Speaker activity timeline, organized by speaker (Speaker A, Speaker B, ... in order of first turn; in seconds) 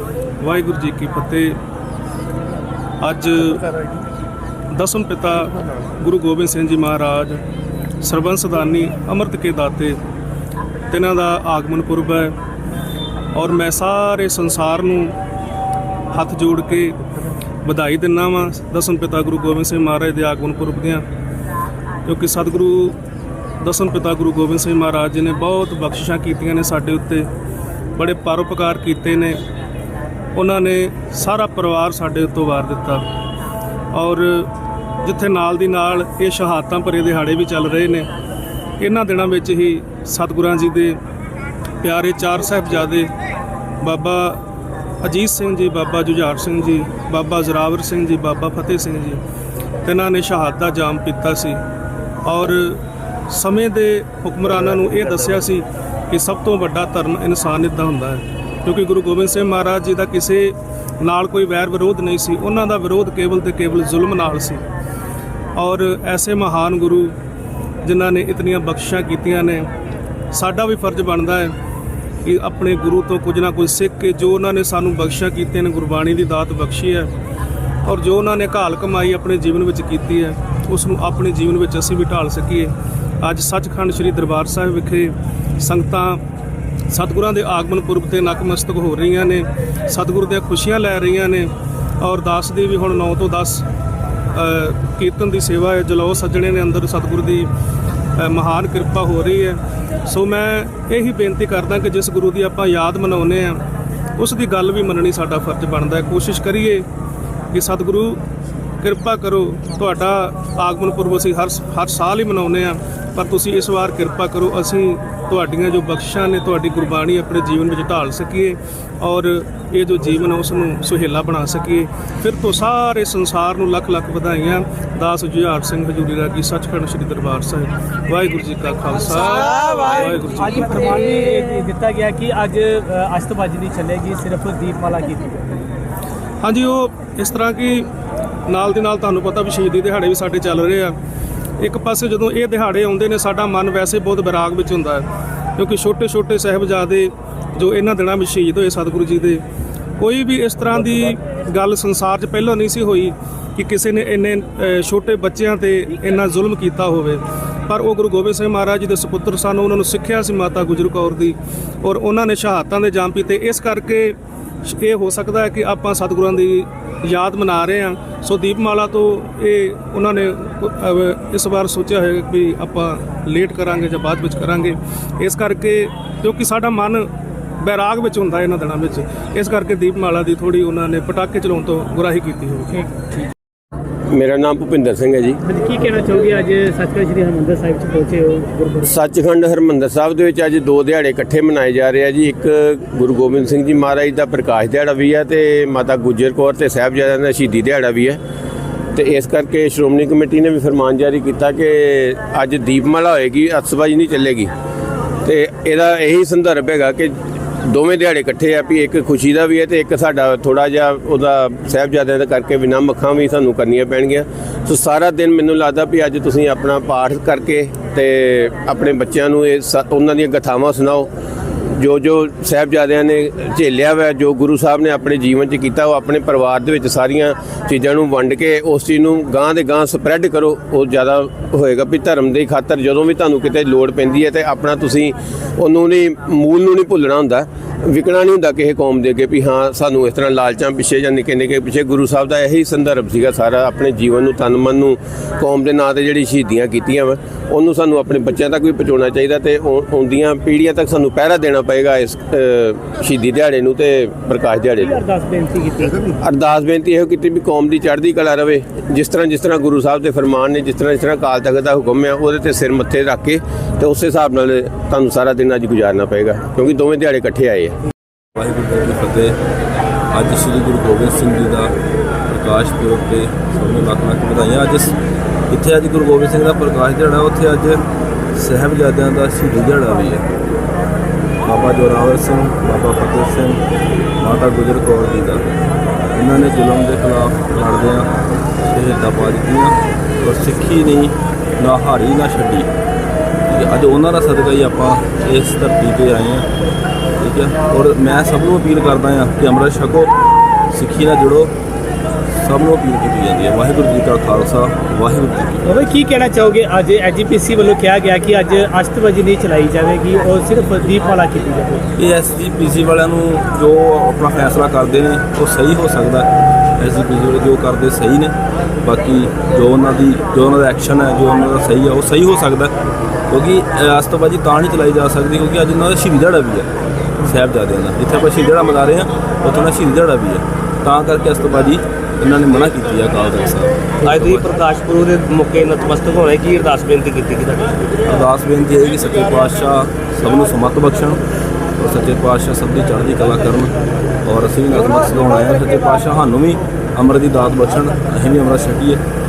Speaker A: 0.4-1.6, 3.0-3.7, 4.7-7.4, 8.0-10.0, 10.9-12.4, 13.3-15.2, 16.1-17.0, 17.6-21.0, 22.0-23.0, 23.6-27.3, 27.9-29.4, 30.3-33.0, 33.9-34.5, 35.0-38.1, 38.8-41.0, 41.8-43.1, 43.8-44.4, 45.0-49.2, 49.8-51.6, 52.2-64.6, 65.5-67.1, 67.8-69.7, 70.3-71.5, 72.2-77.1, 77.8-86.2, 86.9-93.7, 94.3-97.5, 98.2-103.6, 104.2-106.9, 107.5-108.2, 108.8-131.1, 136.4-137.9, 138.5-140.9, 141.6-149.4, 150.0-182.8
Speaker B: 130.4-135.6, 185.4-188.9, 254.8-256.1, 305.6-311.9
Speaker C: 184.1-185.4, 188.8-198.2, 198.9-204.5, 205.2-221.1, 221.7-255.0, 256.2-267.8
Speaker D: 268.3-269.4, 270.1-271.7, 272.3-274.9, 275.5-277.8, 278.3-280.2, 281.4-283.6, 284.2-285.5, 286.1-288.1, 288.7-292.7, 293.5-296.5, 297.2-300.1, 300.7-301.5, 302.3-305.6, 312.0-322.7, 323.3-334.5, 338.1-341.2, 341.8-343.7, 344.2-349.0
Speaker E: 334.1-337.9